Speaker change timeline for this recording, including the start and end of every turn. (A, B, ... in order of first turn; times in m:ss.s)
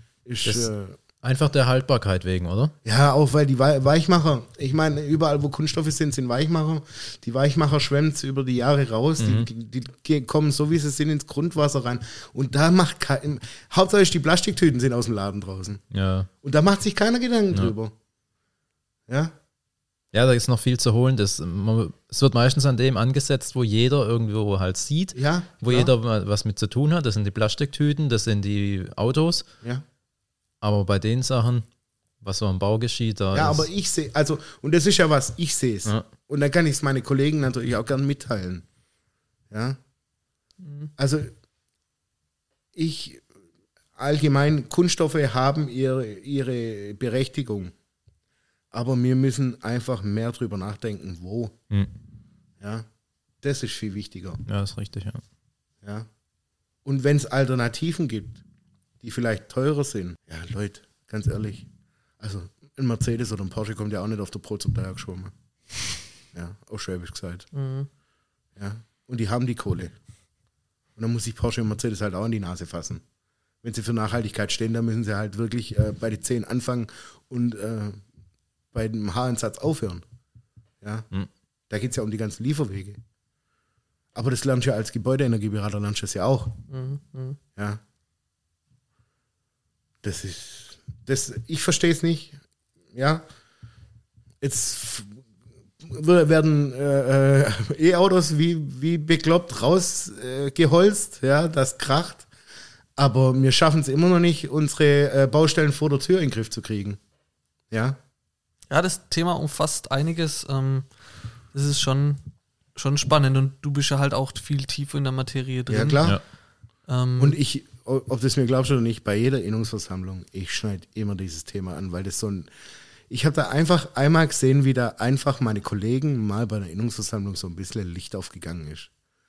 0:00.3-0:01.0 A
0:00.4-0:00.7 B
0:01.2-0:02.7 B
0:02.8-0:15.8 A
0:09.2-0:09.5 B
0:15.9-0:16.3 B
0:16.4-0:17.9 A
0:19.1-0:19.3 A
0:20.1-0:29.4 B
0:25.2-0:25.9 A
0:30.6-0:31.7 B
0:32.2-0:33.7 B
0:33.3-0:38.7 A
0:39.5-0:39.8 A
0:40.6-0:40.9 C
0:41.0-0:41.3 A
0:42.8-0:43.2 A
0:44.0-0:47.7 A
0:48.7-0:51.6 A
0:52.6-0:52.9 A
0:53.4-0:54.4 A
0:54.5-0:55.2 B
0:55.8-0:56.1 A
0:56.8-0:58.4 A
0:59.0-1:01.7 A
1:02.2-1:05.3 A
1:06.3-1:07.5 A
1:07.5-1:07.9 C
1:08.6-1:09.9 A
1:11.0-1:13.0 A
1:13.6-1:18.0 A
1:18.7-1:20.0 A
1:20.8-1:21.1 A
1:21.7-1:23.0 A
1:24.2-1:26.6 A
1:26.7-1:27.4 C
1:30.0-1:32.4 A
1:32.9-1:33.2 A
1:34.4-1:35.2 A
1:35.8-1:42.3 A
1:43.0-1:47.0 A
1:47.7-1:48.0 A
1:48.7-1:50.9 C
1:51.5-1:52.2 C
1:52.8-1:56.1 C
1:55.7-1:56.2 A
1:56.9-1:57.4 C
1:57.2-2:02.5 A
2:03.1-2:08.9 A